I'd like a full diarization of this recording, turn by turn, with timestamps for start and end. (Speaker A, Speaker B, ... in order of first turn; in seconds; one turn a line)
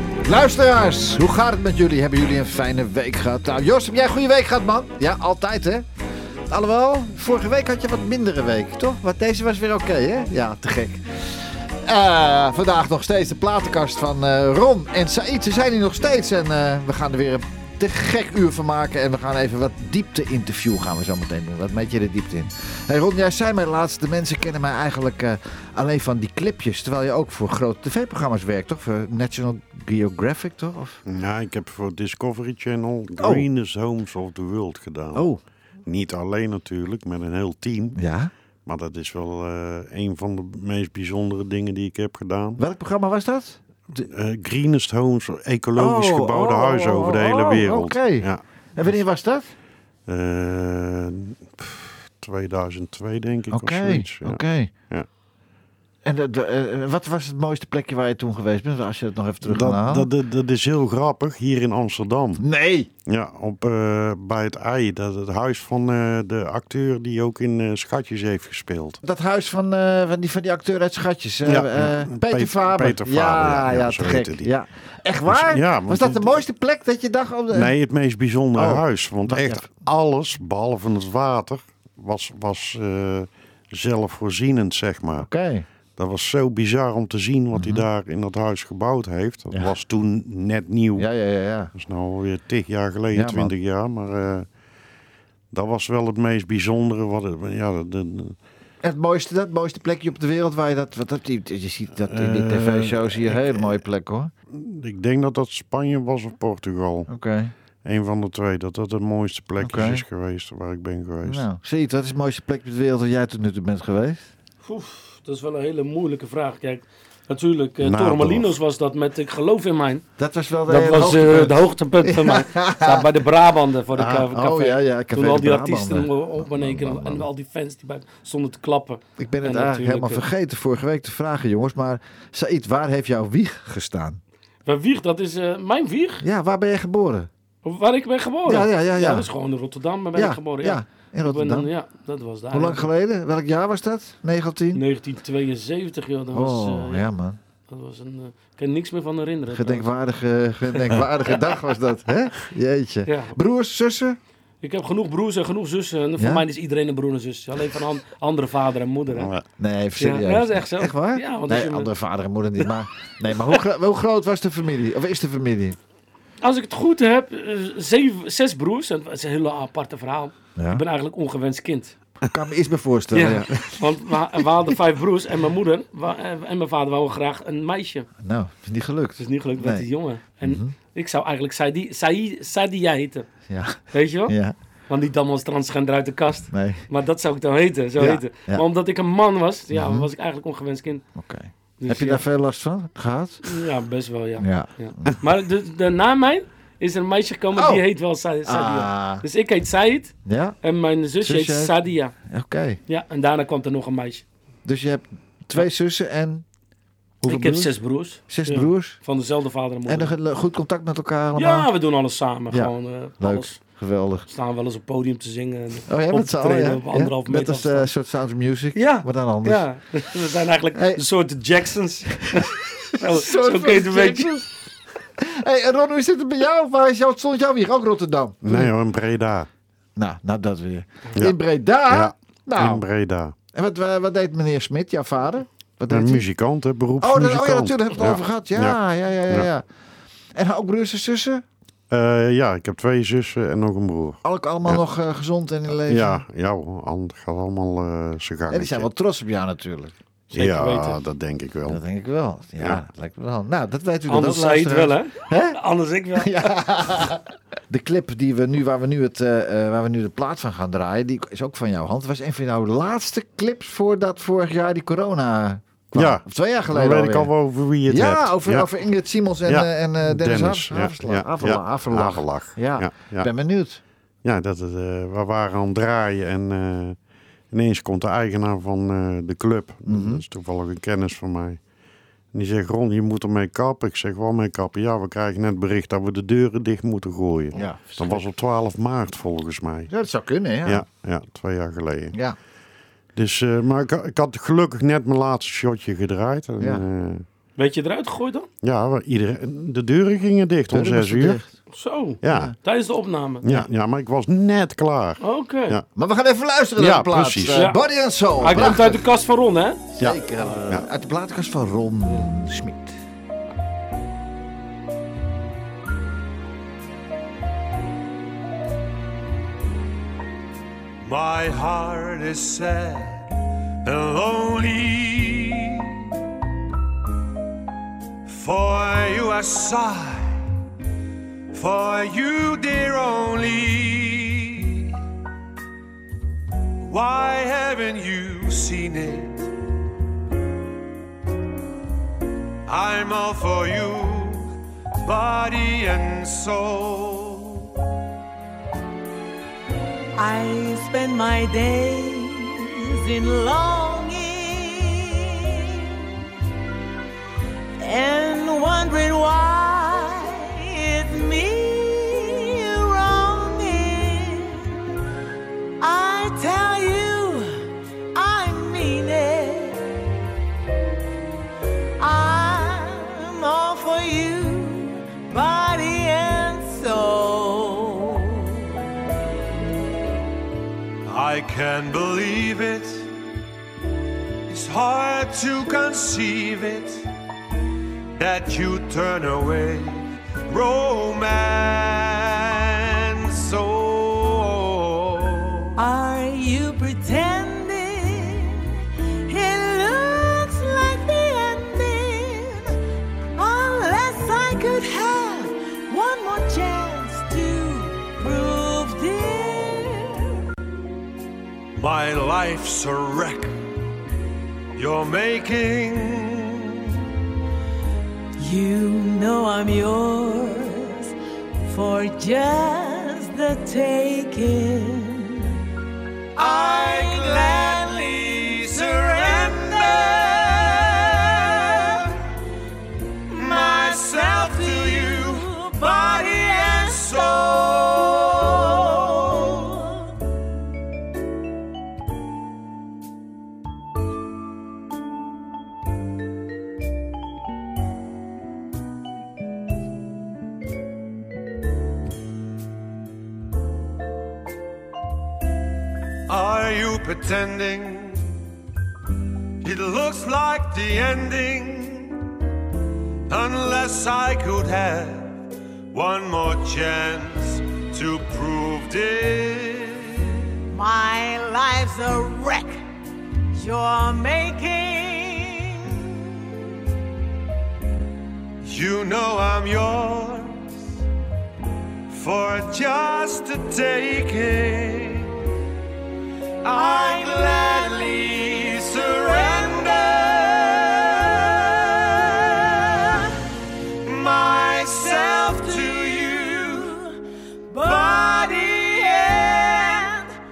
Speaker A: 0.2-5.9
Speaker A: 6.5-11.1
Speaker A: 11.8-31.0
Speaker B: 31.1-35.2
Speaker A: 33.2-33.5
Speaker A: 35.1-35.4
Speaker B: 35.9-38.0
Speaker A: 38.0-38.3
Speaker B: 38.7-42.6
Speaker A: 42.6-44.1
Speaker B: 44.1-48.4
Speaker A: 45.8-49.5
Speaker B: 50.1-55.1
Speaker A: 53.5-54.7
Speaker A: 56.0-60.1
Speaker B: 59.4-62.4
Speaker A: 62.4-62.9
Speaker B: 63.1-69.0
Speaker A: 69.0-77.7
Speaker B: 71.5-74.5
Speaker B: 75.3-76.4
Speaker B: 77.5-85.3
Speaker A: 78.6-79.7
Speaker A: 85.2-85.7
Speaker B: 86.0-91.1
Speaker A: 87.5-87.9
Speaker A: 91.0-91.7
Speaker B: 91.8-94.5
Speaker A: 93.1-93.5
Speaker B: 95.5-98.3
Speaker A: 98.8-104.3
Speaker B: 102.1-103.7
Speaker B: 104.5-107.1
Speaker A: 107.1-107.5
Speaker B: 107.8-111.5
Speaker A: 109.6-110.0
Speaker A: 111.2-114.3
Speaker C: 114.6-120.0
Speaker B: 117.8-118.5
Speaker A: 120.2-123.1
Speaker C: 120.7-130.2
Speaker A: 123.9-127.3
Speaker A: 129.2-134.2
Speaker C: 134.7-136.2
Speaker A: 136.2-137.3
Speaker C: 137.7-142.9
Speaker A: 138.4-139.3
Speaker A: 140.1-141.7
Speaker A: 142.5-144.8
Speaker C: 144.7-147.1
Speaker A: 146.3-147.4
Speaker C: 147.7-149.9
Speaker A: 149.5-154.2
Speaker C: 153.1-153.3
Speaker C: 154.6-159.3
Speaker A: 156.2-156.4
Speaker B: 159.1-159.4
Speaker A: 159.6-165.8
Speaker C: 160.0-161.9
Speaker C: 166.4-171.9
Speaker A: 170.6-170.8
Speaker A: 172.2-174.6
Speaker C: 173.1-178.1
Speaker A: 178.2-179.9
Speaker C: 179.2-183.3
Speaker A: 180.4-180.7
Speaker A: 183.5-184.6
Speaker C: 183.9-184.3
Speaker C: 184.9-191.0
Speaker A: 186.5-186.8
Speaker A: 188.0-188.7
Speaker A: 189.7-190.1
Speaker A: 191.2-193.6
Speaker C: 191.8-192.2
Speaker C: 193.4-202.1
Speaker A: 194.4-195.2
Speaker A: 197.5-197.8
Speaker A: 198.4-199.2
Speaker A: 200.3-200.6
Speaker A: 201.2-202.8
Speaker C: 202.9-204.2
Speaker A: 204.7-206.4
Speaker A: 207.2-207.7
Speaker C: 207.2-210.2
Speaker A: 208.3-209.0
Speaker A: 209.9-211.7
Speaker C: 211.3-213.6
Speaker A: 212.5-214.3
Speaker C: 214.3-217.9
Speaker A: 215.9-219.7
Speaker C: 218.8-224.4
Speaker A: 220.8-221.0
Speaker A: 222.9-224.5
Speaker A: 225.2-228.7
Speaker B: 228.4-229.5
Speaker A: 230.0-232.8
Speaker B: 231.9-233.3
Speaker A: 233.5-236.3
Speaker B: 235.9-238.8
Speaker A: 237.0-239.7
Speaker A: 240.4-241.4
Speaker B: 241.9-244.8
Speaker A: 244.2-246.2
Speaker B: 245.9-248.9
Speaker A: 248.5-249.9
Speaker C: 250.3-251.0
Speaker B: 250.3-251.8
Speaker A: 251.7-255.6
Speaker C: 254.1-256.3
Speaker A: 256.2-267.3
Speaker B: 265.9-268.7
Speaker A: 267.9-273.8
Speaker B: 269.5-273.3
Speaker B: 274.2-277.0
Speaker B: 277.5-281.6
Speaker A: 279.9-280.2
Speaker B: 282.3-289.9
Speaker A: 287.5-287.8
Speaker C: 287.6-288.2
Speaker A: 289.9-290.8
Speaker B: 290.6-292.1
Speaker B: 293.1-297.2
Speaker C: 297.6-298.5
Speaker B: 298.6-301.4
Speaker A: 300.7-301.5
Speaker C: 301.7-303.5
Speaker B: 302.2-302.6
Speaker A: 302.2-302.5
Speaker B: 303.4-305.9
Speaker C: 305.2-305.8
Speaker A: 306.0-309.0
Speaker B: 306.8-307.7
Speaker C: 307.5-307.8
Speaker C: 308.4-309.8
Speaker A: 310.0-313.0
Speaker B: 310.0-310.9
Speaker D: 321.0-323.2
Speaker D: 323.8-326.0
Speaker D: 328.3-330.3
Speaker D: 331.5-334.9
Speaker D: 336.8-339.4
Speaker D: 342.7-347.7
Speaker E: 350.1-356.0
Speaker E: 357.8-364.8
Speaker E: 365.8-367.6
Speaker E: 368.1-369.9
Speaker E: 372.0-378.7
Speaker D: 381.1-383.1
Speaker D: 384.5-387.0
Speaker D: 388.2-395.8
Speaker E: 395.8-402.8
Speaker E: 403.4-410.2
Speaker D: 411.8-413.5
Speaker D: 414.8-416.9
Speaker E: 418.4-421.1
Speaker E: 421.7-425.5
Speaker D: 426.4-431.8
Speaker E: 426.4-430.5
Speaker D: 433.3-438.8
Speaker E: 433.4-437.6
Speaker E: 438.2-439.7
Speaker D: 456.3-458.3
Speaker D: 459.6-462.2
Speaker D: 463.3-465.4
Speaker D: 465.9-470.4
Speaker E: 470.7-472.8
Speaker E: 473.6-476.2
Speaker D: 478.6-480.6
Speaker D: 482.1-485.3
Speaker D: 486.6-491.3
Speaker E: 486.8-488.1
Speaker E: 489.4-489.9
Speaker D: 494.0-497.0
Speaker E: 495.3-496.8
Speaker E: 497.7-500.3
Speaker D: 497.8-498.8